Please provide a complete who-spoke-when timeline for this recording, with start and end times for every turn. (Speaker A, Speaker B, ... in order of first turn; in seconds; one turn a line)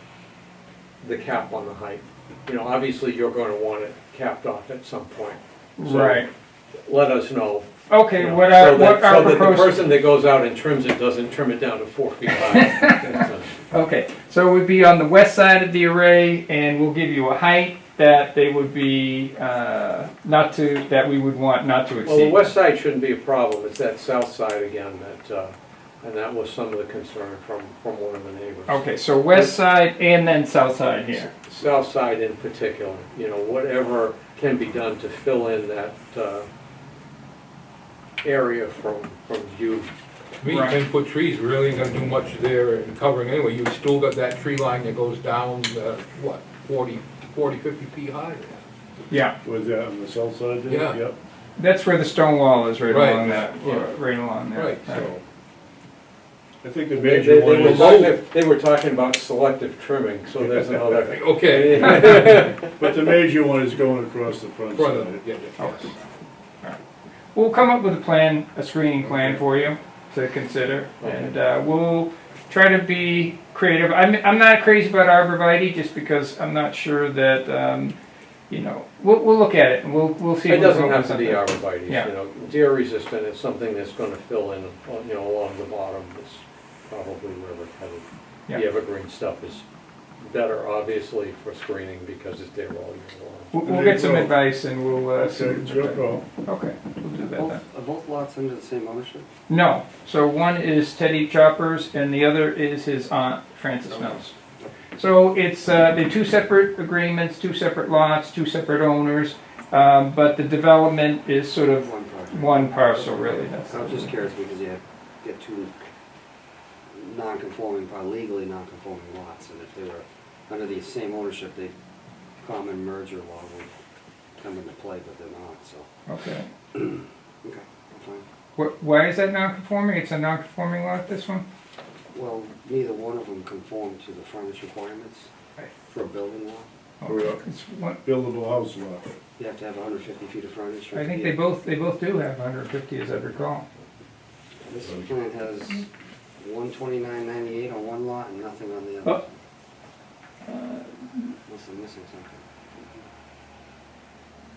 Speaker A: 1.0-5.4
Speaker B: 5.8-6.3
Speaker C: 5.8-6.2
Speaker A: 6.8-13.5
Speaker B: 7.9-9.8
Speaker B: 13.7-22.4
Speaker A: 22.0-29.5
Speaker B: 28.7-31.3
Speaker A: 31.3-36.5
Speaker A: 38.2-39.9
Speaker D: 40.4-48.6
Speaker B: 40.5-40.8
Speaker B: 49.1-49.4
Speaker C: 49.4-51.1
Speaker D: 50.6-51.0
Speaker B: 51.6-55.1
Speaker D: 52.9-53.8
Speaker D: 54.5-54.9
Speaker C: 54.9-55.2
Speaker C: 56.6-58.0
Speaker A: 56.9-62.7
Speaker D: 57.6-58.1
Speaker C: 60.4-60.9
Speaker D: 61.0-62.5
Speaker C: 62.7-65.2
Speaker D: 64.7-65.9
Speaker B: 67.3-78.0
Speaker C: 69.0-69.4
Speaker A: 71.0-71.3
Speaker B: 78.5-82.1
Speaker A: 80.5-89.6
Speaker A: 90.2-93.5
Speaker B: 93.5-97.6
Speaker C: 93.6-94.4
Speaker C: 95.1-96.3
Speaker E: 97.3-99.3
Speaker B: 99.5-104.3
Speaker E: 103.9-104.8
Speaker B: 105.0-114.1
Speaker E: 111.8-115.8
Speaker E: 116.9-121.7
Speaker E: 122.4-123.7
Speaker E: 124.4-125.8
Speaker B: 126.1-126.5
Speaker E: 126.7-128.2
Speaker B: 128.6-131.4
Speaker E: 132.1-135.3
Speaker E: 135.8-136.7
Speaker B: 137.0-138.0
Speaker C: 137.0-137.4
Speaker C: 138.0-139.1
Speaker E: 139.4-141.4
Speaker B: 140.9-143.6
Speaker E: 144.6-145.8
Speaker E: 146.4-149.2
Speaker B: 150.5-150.9
Speaker E: 151.5-153.0